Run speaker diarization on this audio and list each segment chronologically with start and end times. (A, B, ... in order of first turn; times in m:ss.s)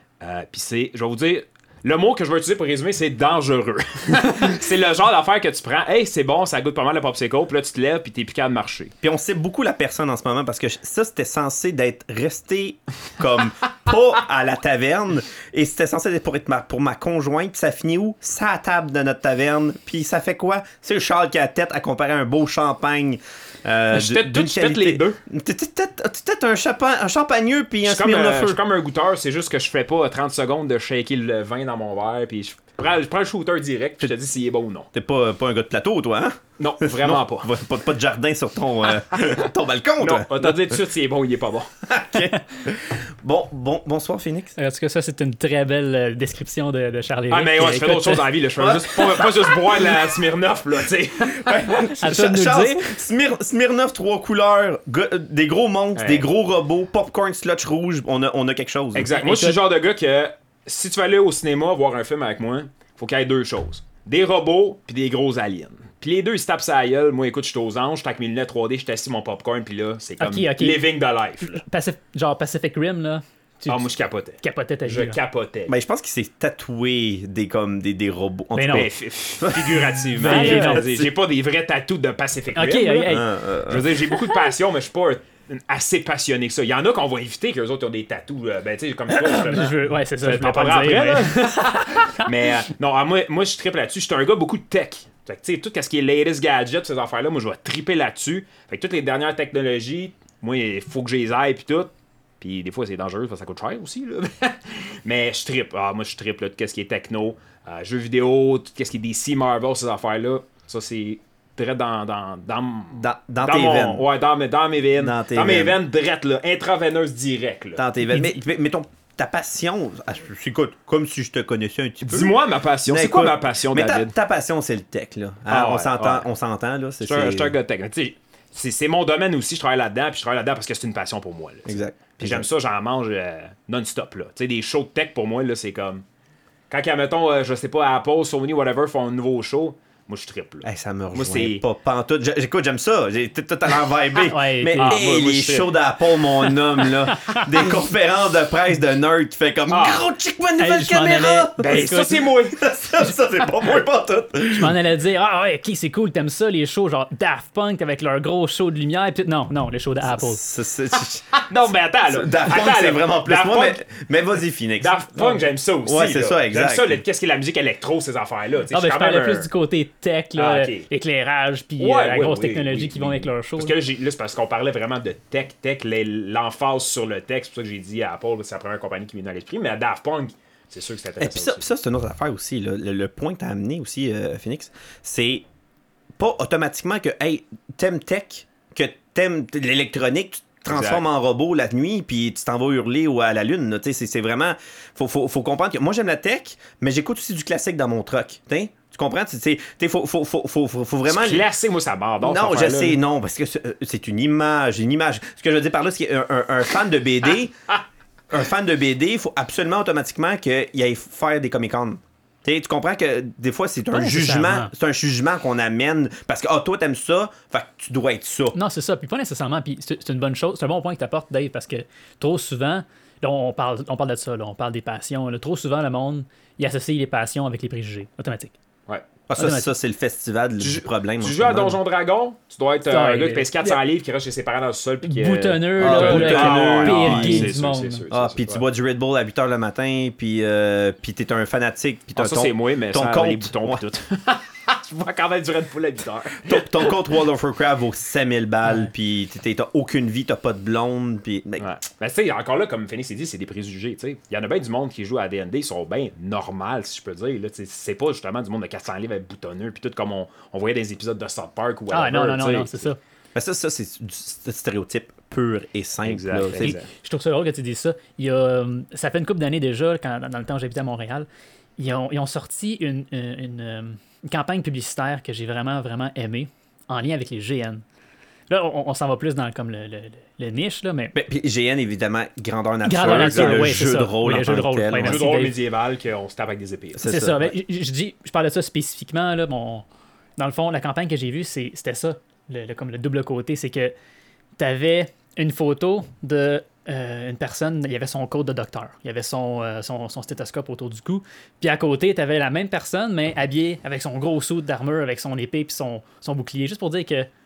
0:00.2-0:08.9 A
0:09.0-0:28.6 B
0:23.9-0:25.2 A
0:27.8-0:34.9 A
0:34.9-0:40.8 B
0:36.6-0:37.5 A
0:40.0-0:41.7 A
0:41.9-0:44.6 B
0:44.6-0:48.2 C
0:47.3-0:51.8 A
0:48.6-0:50.0 B
0:51.2-0:59.1 B
0:52.0-0:52.9 C
0:56.0-0:56.2 A
0:58.9-1:11.6 A
0:59.2-0:59.6 C
1:10.2-1:10.8 C
1:11.4-1:15.2 C
1:13.7-1:15.7 A
1:15.7-1:21.1 B
1:18.5-1:18.9 C
1:18.7-1:23.1 A
1:20.2-1:20.9 C
1:22.6-1:23.3 C
1:23.0-1:24.0 B
1:23.7-1:57.8 A
1:29.1-1:32.1 C
1:52.9-1:54.0 B
1:55.0-1:55.8 B
1:57.8-2:07.5 B
1:58.1-1:58.4 C
2:02.0-2:04.1 A
2:05.5-2:06.3 A
2:07.0-2:16.0 A
2:11.6-2:12.5 B
2:16.7-2:21.6 A
2:20.6-2:34.8 B
2:24.2-2:25.0 C
2:24.8-2:25.7 A
2:27.1-2:27.7 C
2:29.7-2:30.1 A
2:30.6-2:32.2 C
2:31.6-2:32.6 A
2:34.5-2:40.4 C
2:40.0-2:41.4 B
2:41.3-2:43.8 A
2:42.1-2:47.0 B
2:44.8-2:49.5 A
2:48.7-2:53.7 C
2:50.4-2:50.9 A
2:51.8-3:01.7 A
3:01.2-3:05.4 B
3:06.2-3:21.4 B
3:10.7-3:11.0 A
3:21.1-3:23.0 A
3:22.2-3:27.7 B
3:28.3-3:38.6 B
3:33.9-3:34.7 C
3:38.5-3:48.5 C
3:49.3-3:51.8 B
3:49.4-3:49.7 C
3:50.6-3:58.6 A
3:52.9-3:53.8 C
3:55.0-3:58.0 C
3:55.8-3:57.5 B
3:58.1-4:03.8 B
4:02.2-4:07.1 A
4:06.5-4:11.7 B
4:11.6-4:22.9 A
4:21.9-4:23.0 C
4:23.3-4:26.8 B
4:26.0-4:26.9 A
4:26.6-4:37.8 C
4:38.5-4:41.1 C
4:41.1-4:45.2 B
4:42.8-4:45.5 C
4:43.0-4:43.6 A
4:45.0-4:47.2 A
4:47.0-4:47.5 B
4:47.0-4:49.8 C
4:50.4-4:53.9 C
4:54.6-5:07.3 C